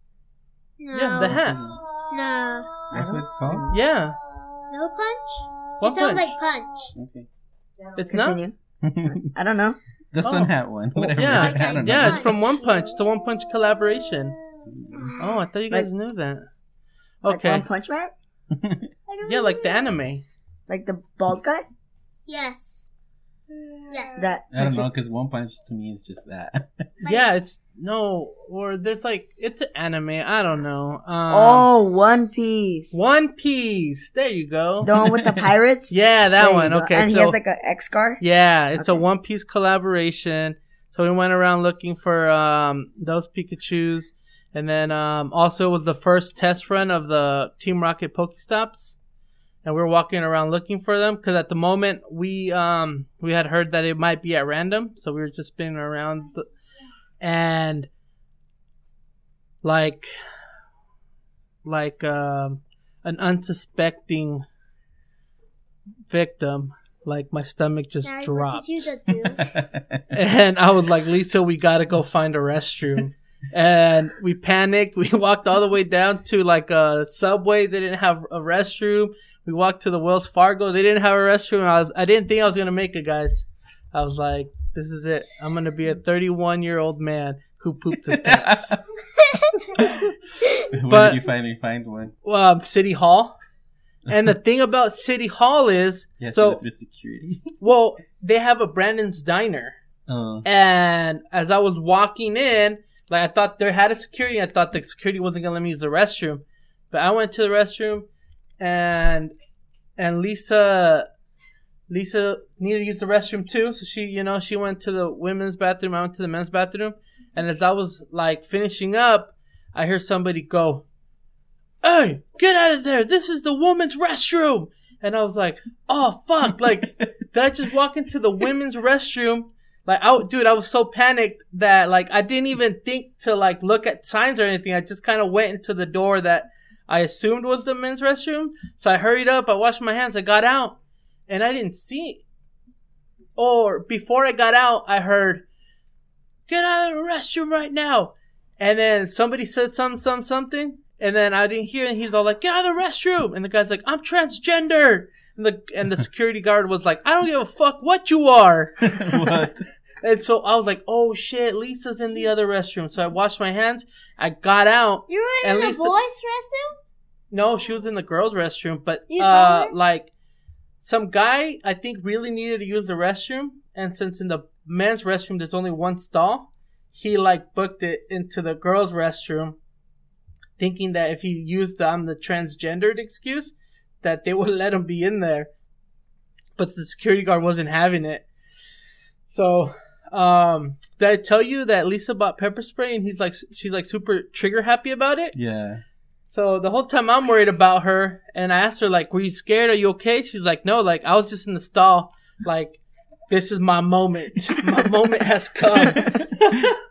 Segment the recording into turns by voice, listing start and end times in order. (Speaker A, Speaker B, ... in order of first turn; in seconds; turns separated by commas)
Speaker A: 0.8-2.8, Speaker B: 0.9-1.6, Speaker C: 1.2-1.8, Speaker D: 2.9-3.8, Speaker C: 2.9-3.7, Speaker B: 3.7-4.2, Speaker A: 4.7-6.9, Speaker B: 5.8-6.3, Speaker C: 7.0-7.3, Speaker B: 8.0-8.4, Speaker D: 8.1-8.6, Speaker C: 8.8-9.3, Speaker D: 9.1-9.8, Speaker C: 10.1-12.4, Speaker B: 10.2-14.4, Speaker A: 11.2-13.1, Speaker C: 14.7-15.1, Speaker B: 15.2-16.5, Speaker B: 17.2-17.6, Speaker D: 17.2-18.1, Speaker C: 18.5-18.9, Speaker A: 19.1-19.9, Speaker B: 19.2-20.2, Speaker D: 20.7-21.6, Speaker A: 22.3-22.8, Speaker A: 23.9-24.3, Speaker D: 24.2-24.9, Speaker C: 24.5-26.9, Speaker B: 27.0-31.7, Speaker D: 31.3-33.0, Speaker B: 32.9-34.9, Speaker D: 34.8-38.2, Speaker C: 35.0-35.5, Speaker B: 35.9-37.4, Speaker B: 38.2-49.0, Speaker D: 38.8-39.0, Speaker B: 49.6-56.5, Speaker B: 57.2-57.9, Speaker B: 59.6-60.1, Speaker B: 61.6-64.5, Speaker B: 66.1-68.9, Speaker A: 68.0-69.5, Speaker C: 69.4-70.0, Speaker B: 70.1-88.8, Speaker C: 88.1-88.8, Speaker A: 89.2-89.6, Speaker C: 90.7-92.1, Speaker B: 90.9-91.2, Speaker B: 92.2-93.3, Speaker B: 94.1-96.6, Speaker C: 96.2-97.5, Speaker B: 97.6-99.8, Speaker C: 100.1-100.5, Speaker B: 100.4-108.1, Speaker B: 108.6-109.3, Speaker B: 110.0-111.1, Speaker B: 111.9-120.8, Speaker B: 121.8-140.8, Speaker B: 141.3-142.2, Speaker B: 143.4-145.4, Speaker B: 146.5-158.9, Speaker C: 158.8-159.7, Speaker B: 160.0-165.9, Speaker A: 165.1-166.8, Speaker B: 167.3-170.1, Speaker A: 169.1-169.7, Speaker B: 170.8-179.6, Speaker B: 180.6-185.5, Speaker B: 186.6-188.3, Speaker B: 189.3-195.4, Speaker C: 195.4-195.8, Speaker B: 196.3-206.6, Speaker C: 205.8-206.6